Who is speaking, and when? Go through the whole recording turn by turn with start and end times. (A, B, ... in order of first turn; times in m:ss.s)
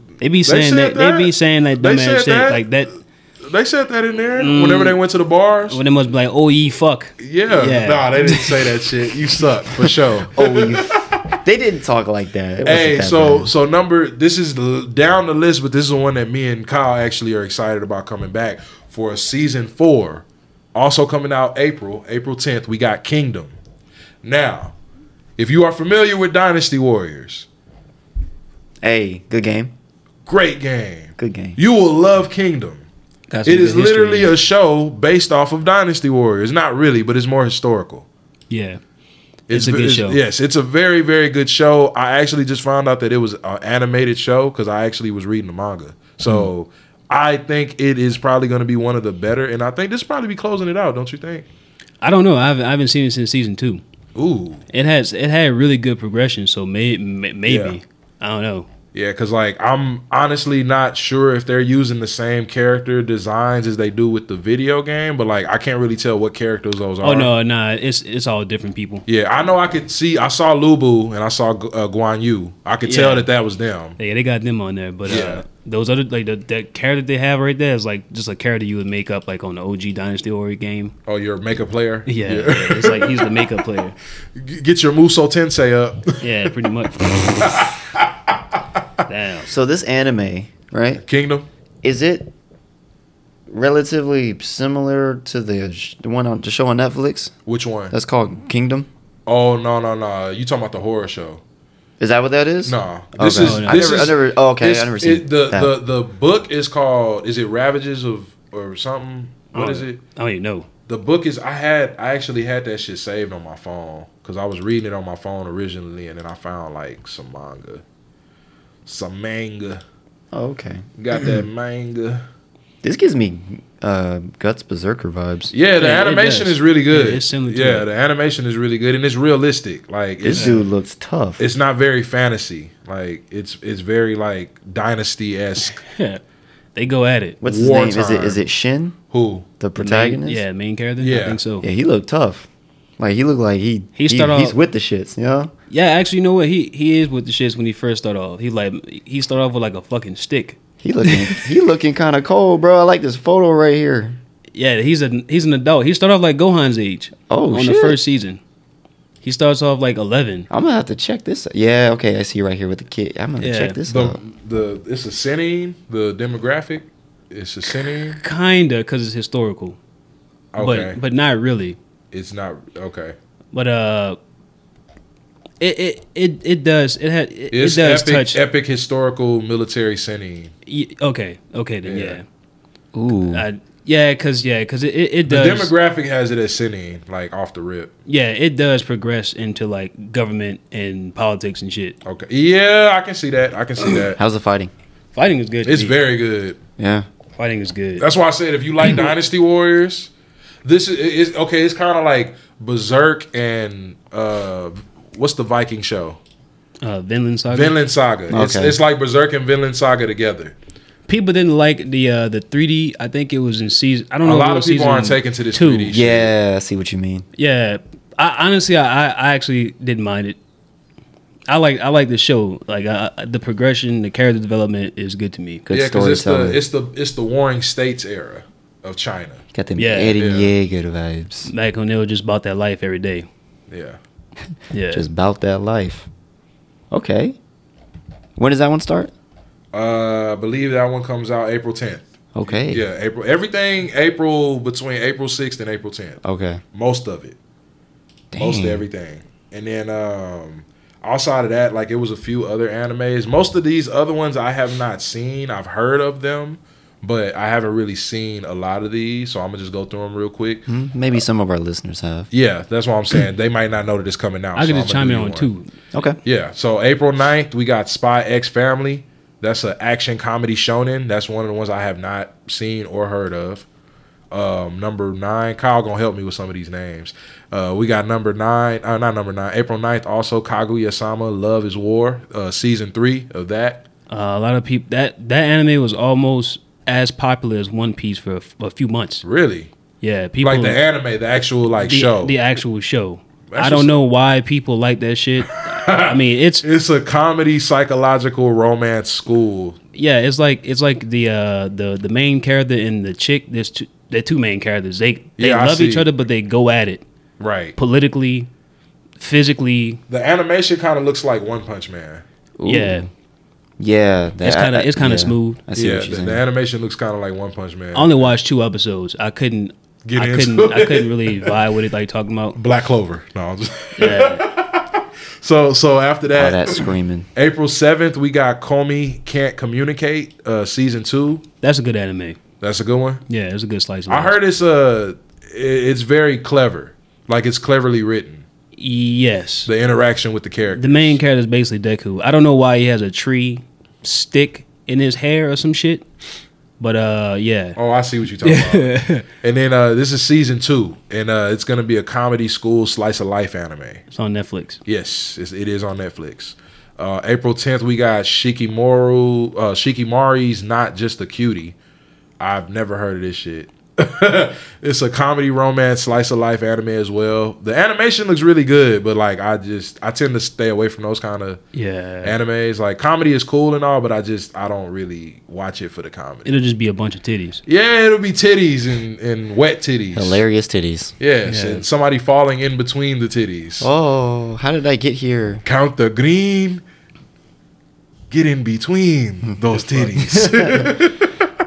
0:00.2-0:02.9 A
0:00.4-0:02.6 B
0:03.4-0:05.8 B
0:04.4-0:05.0 A
0:05.7-0:08.9 A
0:07.2-0:11.4 B
0:10.3-0:13.5 C
0:12.6-0:23.5 B
0:24.2-0:24.7 B
0:25.4-0:27.5 B
0:28.8-0:29.7 C
0:30.2-0:32.8 B
0:31.2-0:31.6 C
0:33.3-0:34.3 A
0:33.4-0:38.0 B
0:38.5-0:38.8 A
0:39.5-0:51.5 B
0:39.5-0:40.2 A
0:52.0-0:53.8 A
0:54.1-0:54.6 B
0:54.7-0:58.7 A
0:57.4-0:57.8 B
0:58.9-1:07.3 B
1:07.0-1:09.0 A
1:09.1-1:14.0 B
1:12.8-1:13.3 A
1:14.0-1:20.9 A
1:15.0-1:15.4 B
1:21.0-1:23.5 B
1:22.1-1:24.0 A
1:24.4-1:26.2 B
1:26.2-1:27.1 A
1:27.3-1:28.1 B
1:29.1-1:29.5 A
1:29.4-1:31.0 C
1:31.0-1:31.5 B
1:31.8-1:32.3 C
1:33.5-1:37.3 C
1:37.4-1:37.9 B
1:37.9-1:38.9 C
1:39.2-1:41.4 B
1:42.0-1:45.7 C
1:42.6-1:50.0 B
1:43.4-1:44.0 A
1:49.5-1:50.7 A
1:50.9-1:57.8 B
1:58.8-1:59.8 B
2:00.3-2:00.8 C
2:01.0-2:02.2 B
2:02.8-2:05.5 C
2:05.5-2:10.6 B
2:05.8-2:07.9 A
2:10.2-2:11.4 C
2:10.3-2:10.6 A
2:11.4-2:15.8 B
2:15.8-2:16.2 A
2:16.7-2:17.4 A
2:17.4-2:19.0 C
2:17.4-2:18.4 B
2:19.1-2:19.5 B
2:19.6-2:20.4 C
2:19.8-2:21.6 A
2:21.0-2:21.4 B
2:21.6-2:22.5 C
2:23.0-2:25.5 C
2:24.0-2:24.6 A
2:25.7-2:31.5 A
2:30.8-2:34.2 C
2:34.5-2:38.4 A
2:37.3-2:38.0 C
2:39.2-2:40.5 A
2:40.5-2:44.2 C
2:43.4-2:43.8 A
2:43.9-2:48.2 B
2:48.2-2:49.8 A
2:50.5-2:51.0 B
2:50.6-2:51.8 A
2:52.1-2:53.2 B
2:53.5-2:54.2 A
2:55.6-2:58.4 A
2:57.5-3:00.5 B
3:00.6-3:02.2 A
3:01.8-3:02.2 B
3:02.9-3:03.4 C
3:03.3-3:05.7 A
3:05.2-3:07.9 B
3:08.1-3:12.0 A
3:12.0-3:14.2 B
3:14.2-3:14.7 C
3:15.1-3:16.0 A
3:15.6-3:16.6 B
3:16.8-3:17.1 C
3:17.4-3:18.0 A
3:18.0-3:20.1 B
3:20.6-3:26.2 B
3:26.8-3:27.7 A
3:27.5-3:30.5 B
3:28.3-3:28.8 C
3:31.1-3:35.9 A
3:34.2-3:36.3 B
3:35.9-3:37.2 C
3:37.4-3:40.4 A
3:41.5-3:45.7 A
3:45.7-3:46.6 C
3:45.7-3:49.4 B
3:49.5-3:51.5 C
3:49.8-3:50.2 A
3:50.2-3:50.5 B
3:51.4-3:53.3 A
3:53.7-3:54.0 B
3:54.7-3:55.0 A
3:54.9-3:56.1 C
3:56.9-3:57.4 C
3:58.4-3:59.1 C
3:59.7-4:06.2 B
4:02.3-4:02.8 C
4:06.2-4:06.6 C
4:06.7-4:07.4 B
4:08.3-4:08.8 C
4:08.4-4:20.7 B
4:20.7-4:22.3 C
4:22.3-4:25.5 B
4:24.6-4:25.7 A
4:25.9-4:26.2 C
4:26.2-4:33.7 B
4:34.3-4:43.8 B
4:44.1-4:49.2 A
4:49.2-4:49.7 B
4:50.0-4:50.8 A
4:50.4-4:52.4 B
4:51.8-4:56.6 A
4:53.5-4:54.0 B
4:55.5-4:59.8 B
4:59.9-5:07.0 A
5:05.4-5:06.1 B
5:07.4-5:07.8 B
5:07.8-5:08.5 A
5:09.2-5:10.0 A
5:10.1-5:12.2 B
5:12.6-5:13.1 C
5:12.6-5:13.1 A
5:13.8-5:16.4 C
5:14.4-5:15.6 A
5:15.7-5:18.3 B
5:17.9-5:22.6 A
5:20.0-5:21.6 B
5:22.6-5:31.4 B
5:24.0-5:24.4 A
5:26.3-5:27.3 C
5:31.6-5:32.4 A
5:32.6-5:33.2 B
5:33.3-5:34.4 A
5:34.1-5:38.4 B
5:38.7-5:39.7 A
5:39.6-5:41.2 B
5:40.8-5:46.0 A
5:46.8-5:47.8 A
5:47.8-5:54.0 B
5:48.4-5:49.2 A
5:54.1-5:54.8 A
5:54.8-6:01.7 B
6:02.4-6:11.6 B
6:11.7-6:12.3 A
6:12.2-6:16.5 B
6:16.4-6:17.6 A
6:17.6-6:20.4 B
6:20.1-6:21.1 C
6:21.2-6:23.9 B
6:21.4-6:21.8 A
6:23.8-6:25.6 C
6:25.6-6:26.8 B
6:28.3-6:31.5 B
6:29.9-6:30.9 C